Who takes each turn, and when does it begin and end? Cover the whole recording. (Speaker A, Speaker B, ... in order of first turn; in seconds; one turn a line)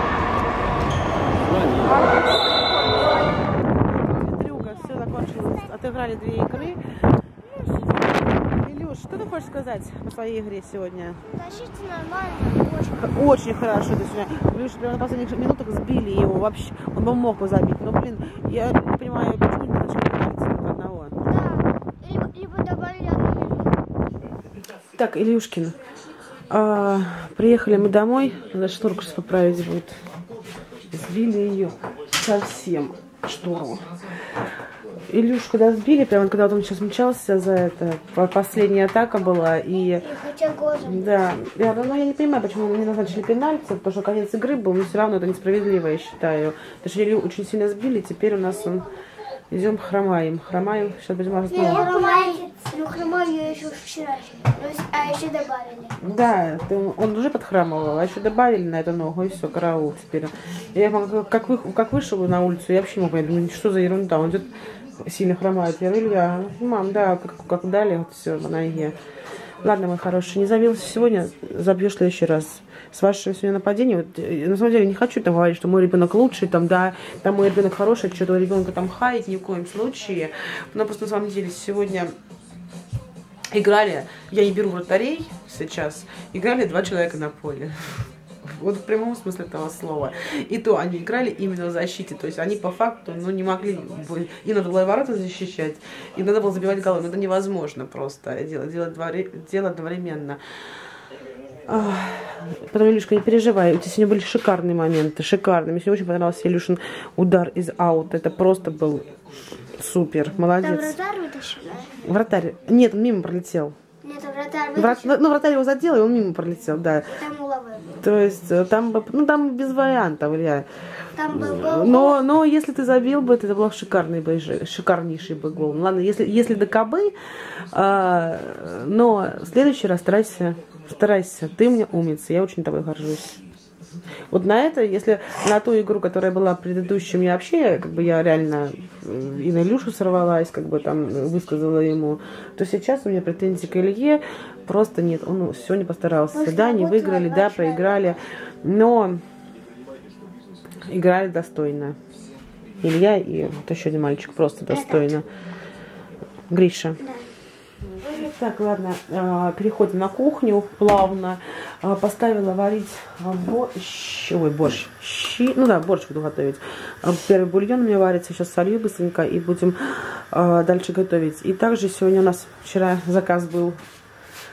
Speaker A: 1.8-6.8
Speaker A: 8.4-11.2
Speaker B: 11.3-13.0
Speaker A: 12.9-21.2
Speaker B: 21.2-23.8
Speaker A: 24.9-25.8
Speaker A: 26.5-29.9
Speaker A: 30.9-33.8
Speaker A: 35.1-40.1
Speaker B: 40.1-41.0
Speaker A: 40.8-48.9
Speaker A: 49.5-51.9
Speaker B: 51.5-56.0
Speaker A: 56.0-69.0
Speaker A: 69.6-82.1
Speaker A: 83.5-87.8
Speaker A: 88.4-100.4
Speaker A: 101.7-109.1
Speaker A: 109.6-111.0
Speaker B: 110.6-111.9
Speaker A: 112.0-113.8
Speaker B: 114.0-115.2
Speaker A: 114.8-117.2
Speaker B: 117.2-117.9
Speaker A: 118.0-120.7
Speaker B: 121.2-122.2
Speaker A: 121.3-133.4
Speaker A: 134.3-149.2
Speaker B: 146.3-148.1
Speaker A: 150.9-152.0
Speaker A: 152.8-155.3
Speaker B: 154.7-154.9
Speaker A: 156.5-157.0
Speaker A: 158.0-173.8